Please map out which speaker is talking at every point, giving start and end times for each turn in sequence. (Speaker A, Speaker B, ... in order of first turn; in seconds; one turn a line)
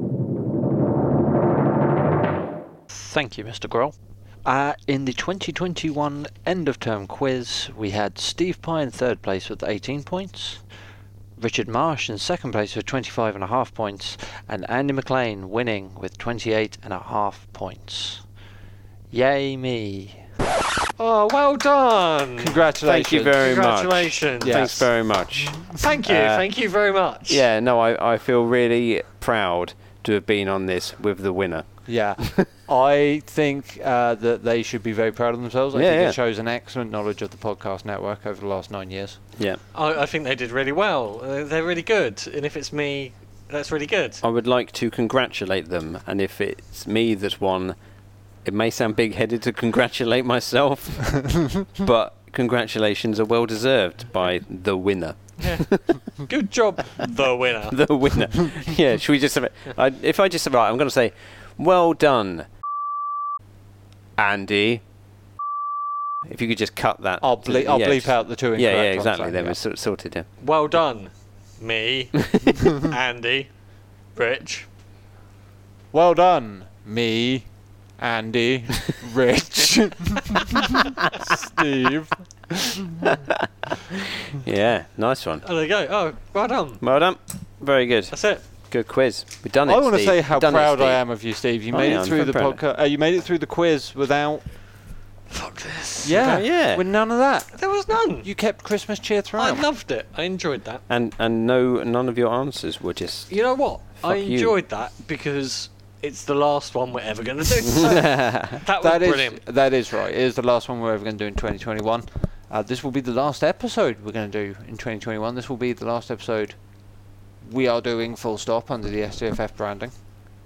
Speaker A: 2.9-10.6
Speaker A: 11.4-18.2
Speaker A: 19.1-20.2
Speaker B: 21.0-22.6
Speaker A: 22.4-23.4
Speaker C: 22.8-26.5
Speaker B: 23.3-25.0
Speaker A: 24.4-24.9
Speaker B: 25.7-27.4
Speaker C: 27.2-32.5
Speaker A: 31.9-39.2
Speaker C: 35.7-36.2
Speaker B: 39.7-44.2
Speaker C: 44.2-47.8
Speaker C: 48.4-56.0
Speaker B: 55.4-58.3
Speaker C: 57.7-62.5
Speaker C: 64.2-64.8
Speaker C: 66.2-70.3
Speaker A: 67.2-69.6
Speaker B: 70.4-73.5
Speaker B: 74.1-74.7
Speaker A: 75.9-80.4
Speaker A: 81.2-82.5
Speaker C: 84.3-85.5
Speaker B: 85.4-86.8
Speaker C: 86.8-92.6
Speaker B: 88.1-88.4
Speaker A: 89.7-94.5
Speaker B: 95.3-96.5
Speaker A: 96.0-99.6
Speaker C: 96.2-96.8
Speaker B: 97.5-98.3
Speaker B: 99.4-100.8
Speaker C: 100.9-104.6
Speaker B: 103.3-109.4
Speaker C: 107.8-108.5
Speaker A: 108.6-119.9